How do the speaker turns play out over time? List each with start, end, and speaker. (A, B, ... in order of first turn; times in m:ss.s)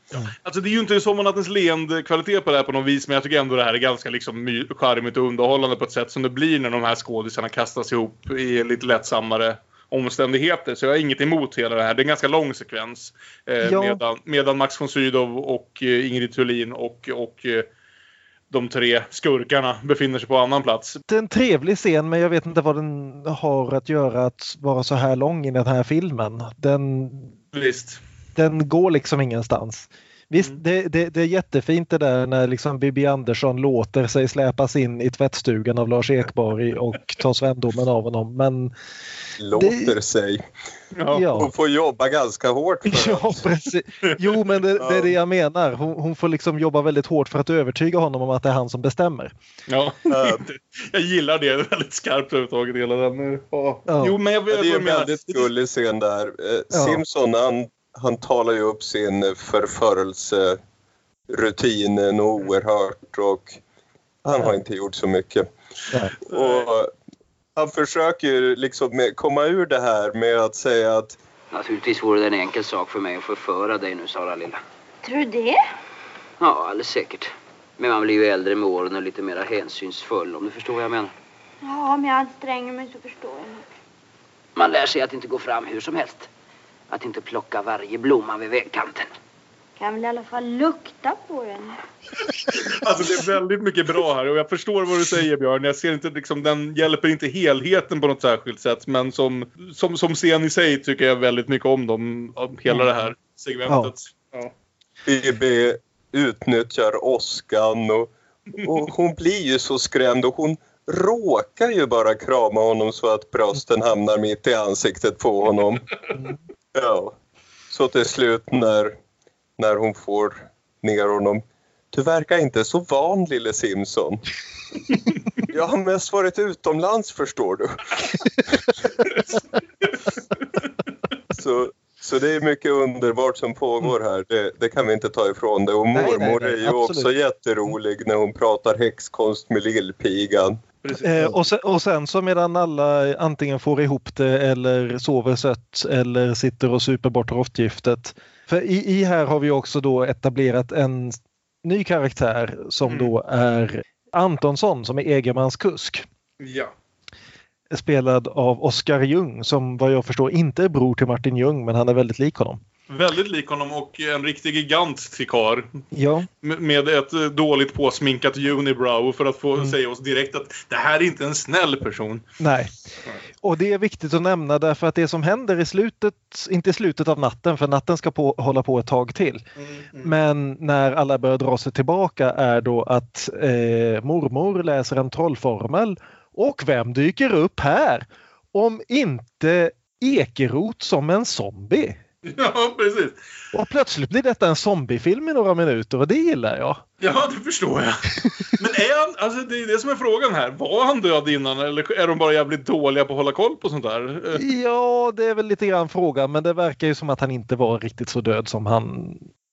0:00.4-0:17.7 A
0:13.6-0:14.0 B
0:18.5-0:21.0 A
0:21.1-0:27.3 B
0:27.5-0:28.0 A
0:28.4-0:38.7 B
0:39.4-0:40.4 C
0:39.5-0:39.9 B
0:40.9-0:41.2 A
0:41.1-0:41.5 B
0:41.3-0:43.4 C
0:42.9-0:49.3 B
0:44.8-0:45.1 C
0:49.7-0:55.5 A
0:50.1-0:50.4 C
0:53.9-0:54.2 B
0:54.5-1:00.6 C
0:56.7-0:57.0 B
1:01.3-1:03.6 C
1:04.2-1:05.5 C
1:06.3-1:06.7 A
1:06.3-1:06.9 C
1:07.6-1:11.2 C
1:11.5-1:14.6 D
1:15.0-1:15.6 E
1:16.4-1:21.1 D
1:21.6-1:23.6 E
1:24.6-1:26.3 D
1:26.9-1:29.1 D
1:29.8-1:31.8 E
1:32.6-1:44.5 A
1:43.7-1:43.9 B
1:45.0-1:48.1 C
1:48.6-1:55.9 C
1:56.7-1:57.1 C
1:57.7-1:59.0 C
1:59.6-2:04.2 C
2:05.4-2:08.7 C
2:11.3-2:20.6 C
2:15.9-2:17.1 B
2:20.8-2:21.4 A
2:21.0-2:36.0 B
2:32.8-2:33.1 A
2:36.4-2:36.7 A
2:37.7-2:42.6 B
2:42.9-2:45.8 A
2:45.9-2:46.3 B
2:46.4-2:52.2 A
2:52.4-2:52.8 B
2:53.4-2:59.4 B
2:59.6-3:00.1 A
3:00.0-3:12.0 B
3:12.2-3:13.2 A
3:13.5-3:16.8 B
3:17.0-3:24.4 A
3:24.3-3:29.3 B